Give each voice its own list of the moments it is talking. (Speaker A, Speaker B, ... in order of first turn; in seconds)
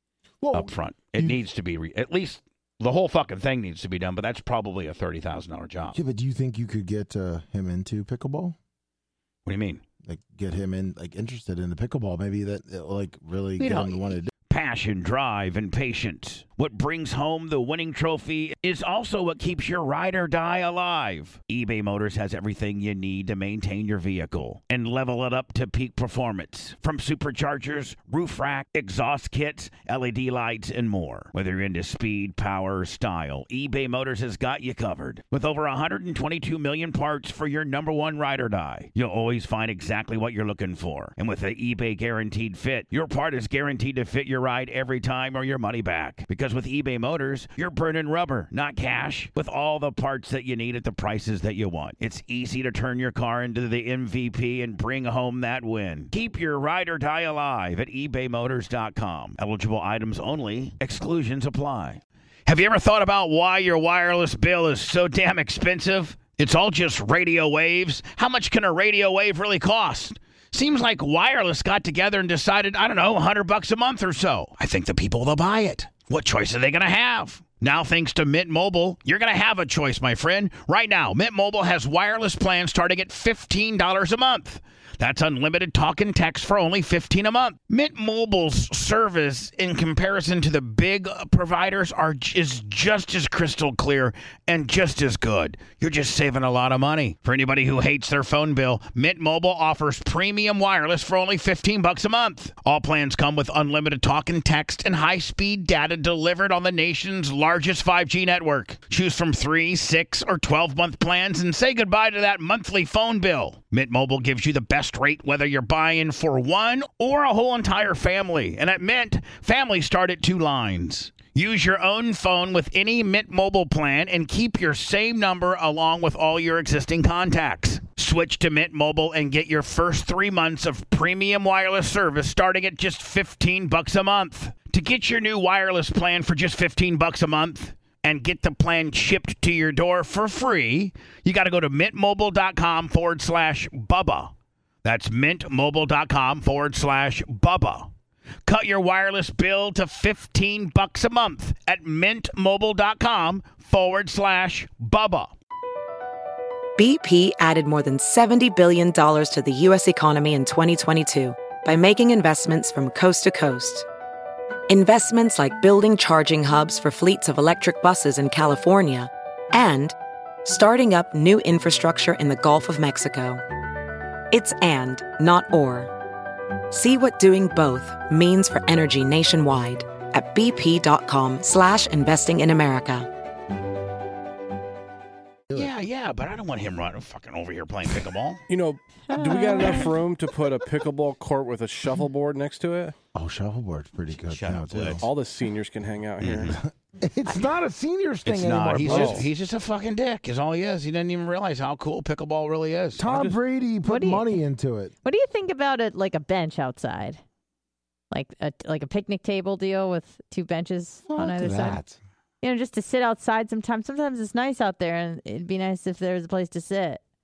Speaker A: 0.4-1.4, 5.9-8.6, 10.0-14.3, 193.1-195.1, 196.5-199.3, 203.0-204.9, 211.1-212.0
Speaker B: 0.5-6.0, 9.4-9.8, 14.5-144.3, 144.8-147.9, 148.4-155.3, 185.5-188.4, 194.2-195.0, 196.2-196.6, 198.2-203.1
Speaker C: 156.8-163.8, 164.7-173.4, 174.3-175.9, 176.7-183.1
Speaker D: 188.5-192.9, 195.0-196.6, 198.8-199.3, 203.1-203.4
Speaker E: 189.1-190.0, 203.9-204.3, 205.0-207.2, 208.1-211.8, 212.4-217.0